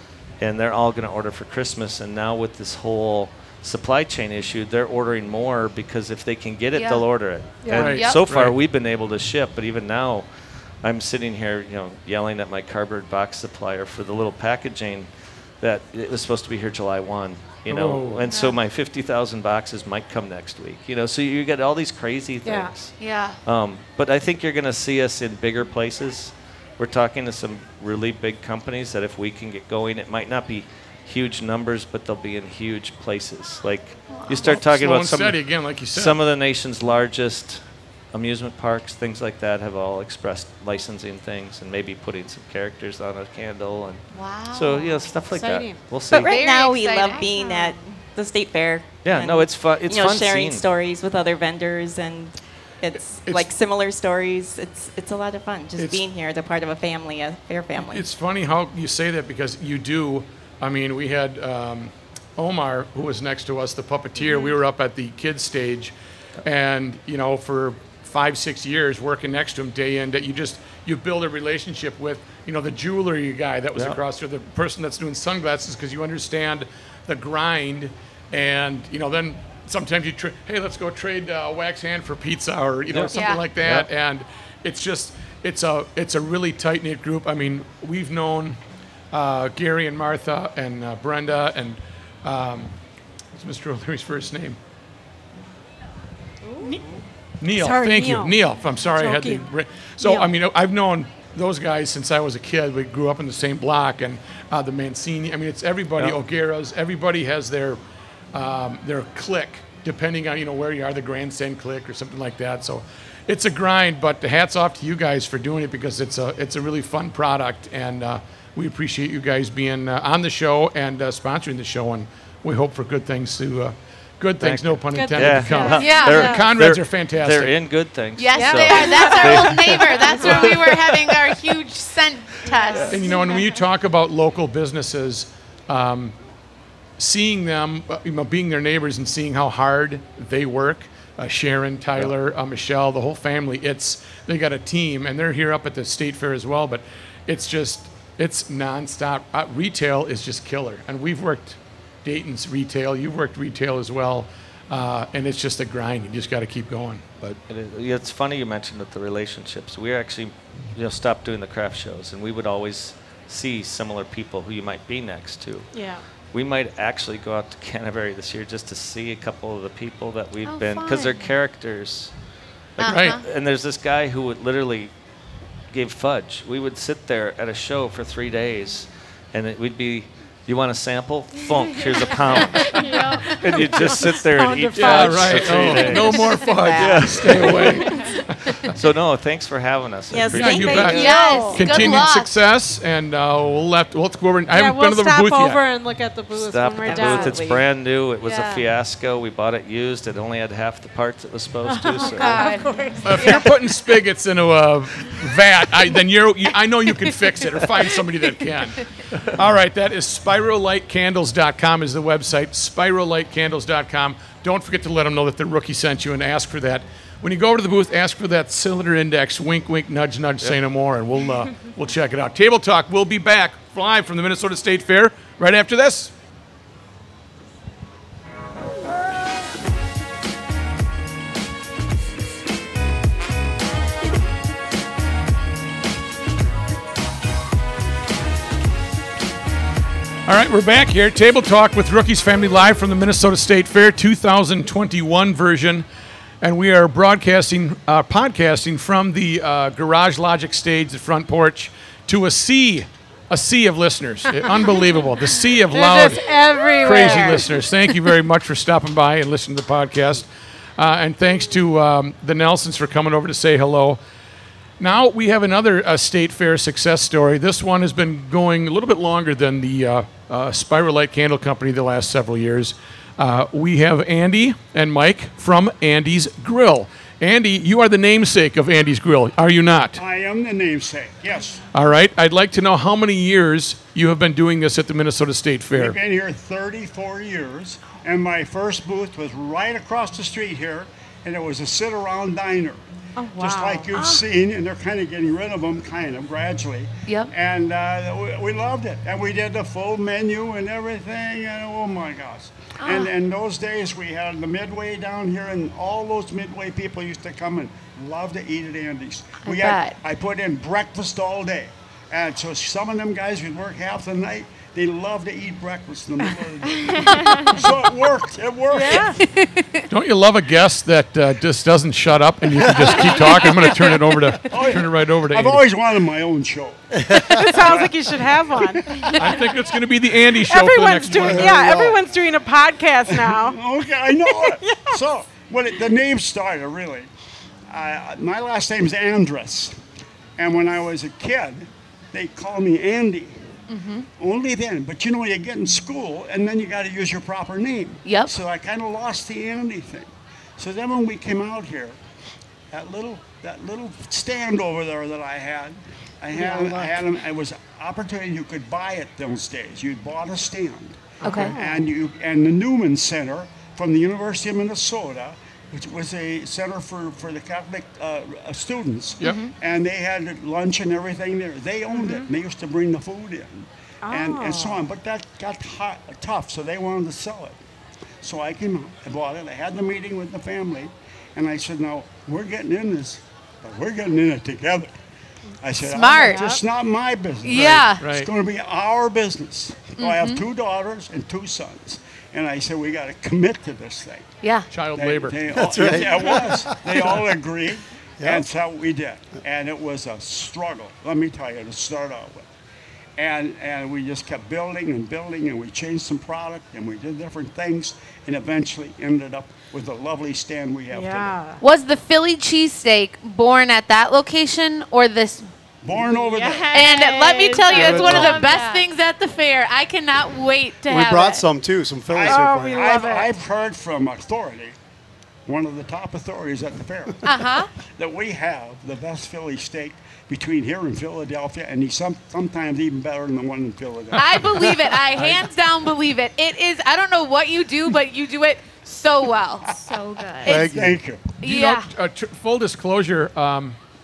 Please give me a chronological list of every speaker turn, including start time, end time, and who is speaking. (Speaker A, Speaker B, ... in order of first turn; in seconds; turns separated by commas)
Speaker A: 0.4-10.3, Speaker B: 6.7-7.0, Speaker C: 7.6-7.9, Speaker D: 7.7-8.5, Speaker B: 7.9-8.2, Speaker A: 10.8-46.3, Speaker D: 17.7-18.2, Speaker B: 18.3-18.6, Speaker C: 22.4-22.7, Speaker B: 23.0-23.4, Speaker B: 34.1-34.6, Speaker D: 34.4-36.2, Speaker B: 44.1-45.0, Speaker C: 45.3-45.8, Speaker E: 46.1-58.1, Speaker B: 46.1-47.3, Speaker C: 47.3-47.6, Speaker A: 49.0-50.6, Speaker D: 53.1-53.5, Speaker D: 55.8-56.0, Speaker D: 57.7-88.6, Speaker A: 82.9-83.9, Speaker B: 83.1-83.5, Speaker D: 89.1-92.7, Speaker D: 93.3-94.6, Speaker D: 97.4-107.8, Speaker C: 97.5-99.5, Speaker C: 100.0-100.3, Speaker D: 108.3-127.6, Speaker A: 124.4-129.7, Speaker C: 124.9-126.5, Speaker B: 125.7-126.3, Speaker B: 128.2-133.1, Speaker C: 128.3-130.5, Speaker D: 129.2-130.7, Speaker A: 130.2-130.5, Speaker C: 132.5-133.4, Speaker D: 132.8-136.1, Speaker D: 137.0-157.3, Speaker A: 157.3-165.7, Speaker C: 165.7-166.0, Speaker A: 166.3-172.1, Speaker B: 170.4-171.3, Speaker A: 172.8-174.9, Speaker D: 172.8-173.2, Speaker B: 172.8-173.2, Speaker A: 175.7-187.8, Speaker F: 182.6-183.3, Speaker C: 183.3-186.0, Speaker D: 184.7-188.8, Speaker E: 184.9-187.8, Speaker A: 188.7-190.9, Speaker C: 190.1-191.8, Speaker E: 190.2-191.0, Speaker D: 190.2-195.6, Speaker B: 190.8-192.4, Speaker C: 194.5-197.4, Speaker A: 196.3-202.6, Speaker E: 196.8-197.7, Speaker C: 198.2-198.6, Speaker C: 201.7-203.5, Speaker B: 201.9-203.4, Speaker D: 203.0-226.1, Speaker D: 240.2-245.8, Speaker D: 246.4-260.2, Speaker C: 255.7-257.6, Speaker D: 260.8-264.0, Speaker D: 264.8-280.0, Speaker G: 280.0-281.6, Speaker D: 281.7-286.0, Speaker G: 285.7-292.8, Speaker C: 293.2-293.9, Speaker G: 293.4-319.1, Speaker B: 293.9-294.2, Speaker B: 302.8-303.1, Speaker B: 309.4-310.0, Speaker C: 318.7-319.2, Speaker B: 319.2-319.8, Speaker D: 319.9-325.6, Speaker C: 323.0-324.0, Speaker G: 324.5-329.5, Speaker H: 327.0-327.5, Speaker C: 327.4-329.4, Speaker D: 329.1-331.6, Speaker C: 330.4-333.6, Speaker H: 331.2-332.0, Speaker G: 333.1-337.1, Speaker C: 334.2-335.0, Speaker G: 337.7-339.8, Speaker G: 340.4-343.6, Speaker B: 343.7-344.1, Speaker G: 344.2-351.9, Speaker B: 348.0-348.4, Speaker G: 352.7-377.6, Speaker H: 356.5-356.9, Speaker B: 361.2-361.5, Speaker D: 361.2-361.6, Speaker C: 361.4-361.9, Speaker B: 369.2-369.5, Speaker C: 371.9-372.2, Speaker C: 374.0-374.8, Speaker G: 378.2-384.9, Speaker G: 385.6-394.3, Speaker B: 385.8-386.6, Speaker C: 386.2-386.6, Speaker B: 387.4-388.0, Speaker D: 388.0-388.3, Speaker B: 390.0-390.4, Speaker B: 394.4-394.7, Speaker D: 394.7-395.7, Speaker G: 394.9-402.4, Speaker H: 395.6-396.8, Speaker G: 403.2-411.4, Speaker C: 410.9-411.6, Speaker B: 411.6-415.5, Speaker G: 415.8-416.8, Speaker F: 416.0-418.8, Speaker B: 416.7-421.4, Speaker D: 417.7-418.3, Speaker H: 420.9-422.9, Speaker G: 422.1-424.7, Speaker C: 422.2-423.3, Speaker G: 425.5-427.4, Speaker B: 427.2-427.7, Speaker G: 428.0-434.7, Speaker B: 434.1-439.7, Speaker F: 439.7-440.6, Speaker B: 440.4-440.8, Speaker H: 440.4-441.0, Speaker G: 440.5-441.4, Speaker B: 441.4-441.9, Speaker D: 441.4-443.8